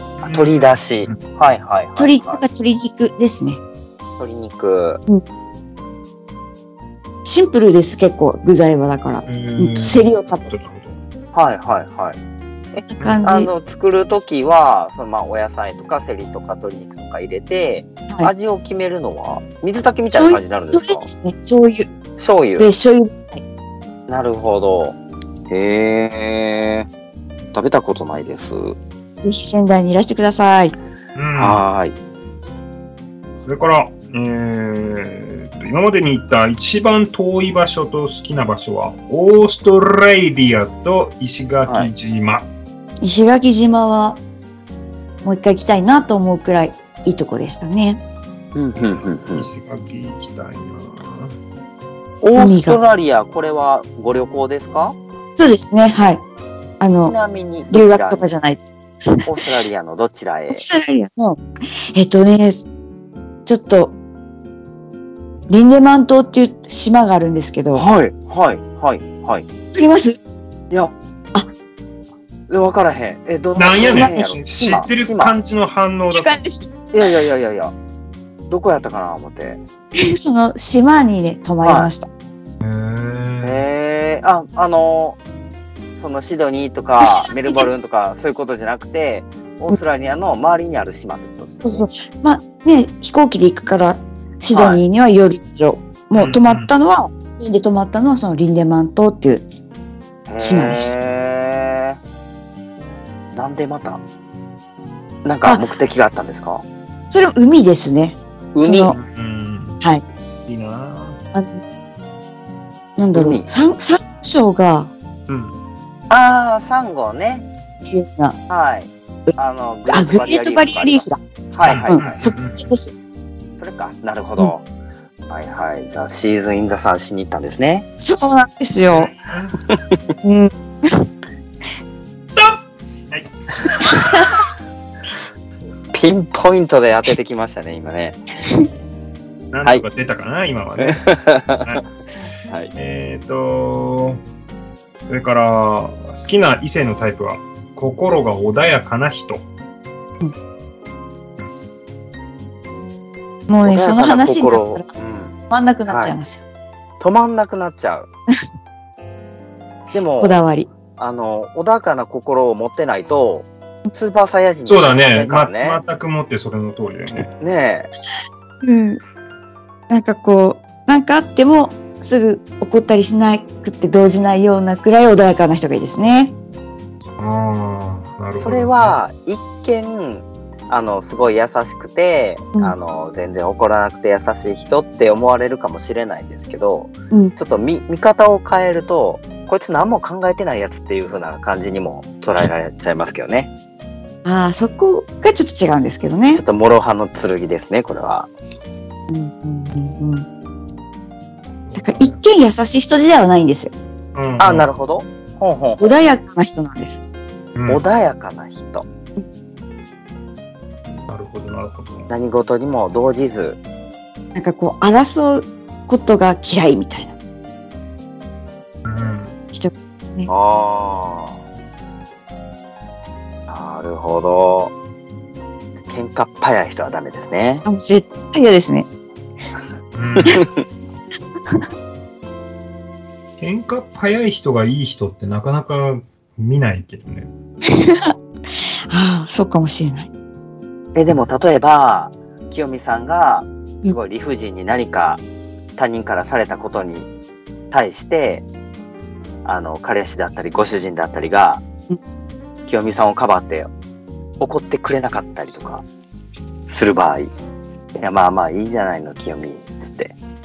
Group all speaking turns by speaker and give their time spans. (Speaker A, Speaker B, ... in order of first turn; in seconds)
Speaker A: 0.2-1.2, 9.3-11.0, 13.0-13.2, 31.1-31.6, 33.5-42.5, 48.8-51.3, 73.6-76.4, 82.6-83.7, 96.1-96.7, 108.9-109.8, 110.5-111.2, 115.3-115.5, 121.7-122.7, 128.9-129.6, 132.3-134.2, 139.5-141.9, 142.7-144.2, 145.1-149.4, 164.7-167.3, 177.2-179.0, 201.7-202.2, 204.2-204.7, 207.6-207.8, 211.1-212.1, 218.8-219.3, 229.9-230.5, 233.4-237.3
Speaker B: 0.2-2.4, 4.2-5.0, 11.3-12.2, 13.2-21.1, 22.2-22.7, 24.1-25.0, 25.5-26.9, 27.5-28.8, 31.4-32.0, 48.5-49.5, 52.2-55.0, 57.0-58.3, 59.3-60.7, 67.7-69.5, 72.5-75.3, 76.9-77.7, 78.5-79.6, 81.6-81.9, 83.4-85.2, 86.0-91.8, 94.5-94.8, 100.3-102.0, 103.3-104.0, 105.2-106.6, 108.5-108.9, 113.1-113.5, 116.1-117.5, 118.5-122.0, 123.6-124.6, 125.3-127.9, 129.7-130.0, 135.9-138.2, 140.8-141.8, 153.6-155.4, 155.9-156.2, 157.0-158.1, 159.9-160.4, 161.0-165.8, 167.4-167.9, 178.4-193.5, 196.3-198.3, 204.4-206.0, 207.7-208.9, 212.1-213.6, 220.3-221.4, 223.5-224.7, 225.9-227.7, 230.2-230.7, 240.9-245.2, 245.8-247.1, 247.7-248.4, 249.4-251.6, 252.7-253.7, 254.4-255.8, 256.7-257.3, 258.0-260.1
Speaker C: 2.0-3.6, 7.2-10.5, 12.8-13.5, 20.1-21.9, 22.6-23.4, 29.2-30.7, 43.0-44.2, 45.2-48.0, 52.4-52.8, 55.4-56.2, 56.8-57.1, 57.7-59.3, 60.5-61.4, 61.9-62.7, 63.5-64.0, 65.5-67.8, 69.7-70.2, 73.7-74.8, 76.1-76.7, 80.0-82.1, 87.0-87.7, 91.7-99.5, 100.4-101.0, 107.1-109.0, 111.3-111.6, 113.0-114.9, 117.9-118.4, 119.9-122.9, 128.0-129.1, 130.2-131.1, 153.5-154.9, 155.5-156.4, 160.2-160.7, 168.6-169.0, 169.9-176.3, 194.2-196.4, 199.1-200.3, 201.8-203.7, 205.8-207.0, 214.3-217.2, 219.5-220.3, 227.7-228.9, 237.7-238.1, 238.9-240.1